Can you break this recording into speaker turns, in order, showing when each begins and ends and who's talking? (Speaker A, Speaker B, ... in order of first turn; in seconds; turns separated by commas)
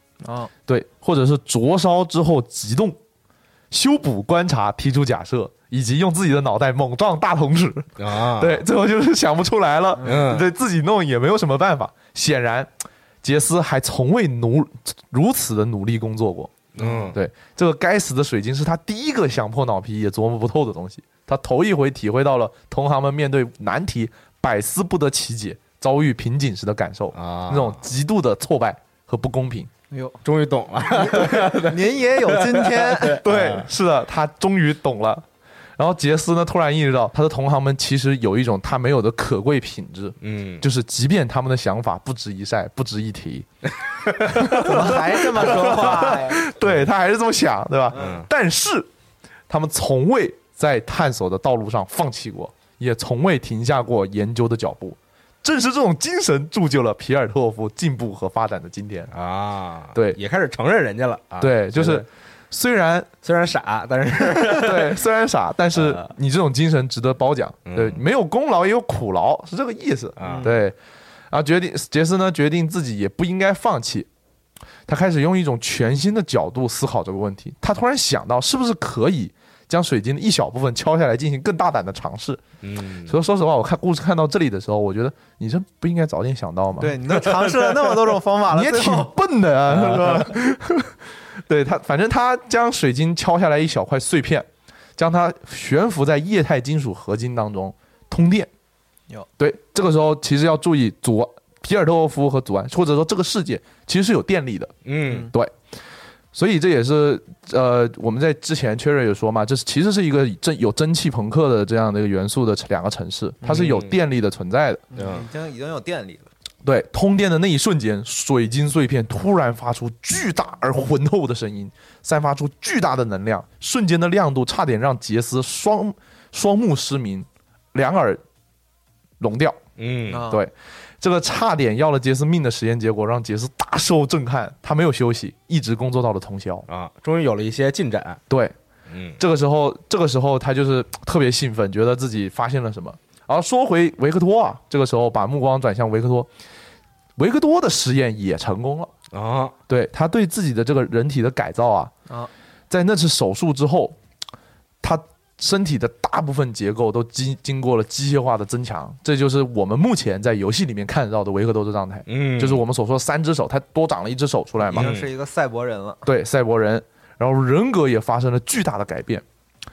Speaker A: 0.2-0.5, Speaker B: 0.7-3.0, Speaker B: 3.7-12.7, Speaker C: 8.0-8.6, Speaker A: 10.0-10.2, Speaker C: 10.0-10.5, Speaker B: 13.2-29.7, Speaker C: 16.7-17.2, Speaker A: 16.8-17.1, Speaker C: 27.1-27.8, Speaker A: 29.9-30.2, Speaker C: 30.2-33.7, Speaker A: 30.9-33.2, Speaker B: 33.2-35.2, Speaker B: 35.8-43.5, Speaker C: 40.2-40.6, Speaker B: 44.2-48.9, Speaker C: 44.2-44.8, Speaker A: 44.5-46.4, Speaker C: 45.5-46.9, Speaker C: 47.9-48.3, Speaker B: 49.5-59.1, Speaker C: 59.1-62.1, Speaker B: 61.4-63.1, Speaker C: 63.2-65.0, Speaker B: 64.5-70.7, Speaker C: 65.7-66.1, Speaker C: 67.7-68.0, Speaker C: 70.2-70.5, Speaker A: 70.2-70.5, Speaker B: 71.3-74.1, Speaker B: 74.9-82.5, Speaker C: 82.6-83.1, Speaker B: 83.0-87.5, Speaker A: 86.8-89.1, Speaker B: 88.5-98.5, Speaker C: 89.7-90.3, Speaker B: 99.4-105.5, Speaker C: 104.8-105.3, Speaker B: 106.3-114.8, Speaker C: 113.5-113.9, Speaker A: 114.9-116.3, Speaker C: 115.0-115.2, Speaker B: 116.6-128.2, Speaker B: 129.2-129.6, Speaker C: 129.8-130.3, Speaker A: 130.1-130.4, Speaker B: 130.2-136.6, Speaker C: 136.7-138.2, Speaker B: 138.3-138.5, Speaker C: 138.9-139.2, Speaker B: 139.2-146.3, Speaker B: 147.2-148.9, Speaker C: 149.1-149.5, Speaker B: 149.7-151.9, Speaker B: 152.7-153.9, Speaker B: 154.8-164.9, Speaker C: 162.1-162.6, Speaker A: 164.7-166.1, Speaker C: 164.7-165.1, Speaker B: 166.0-169.2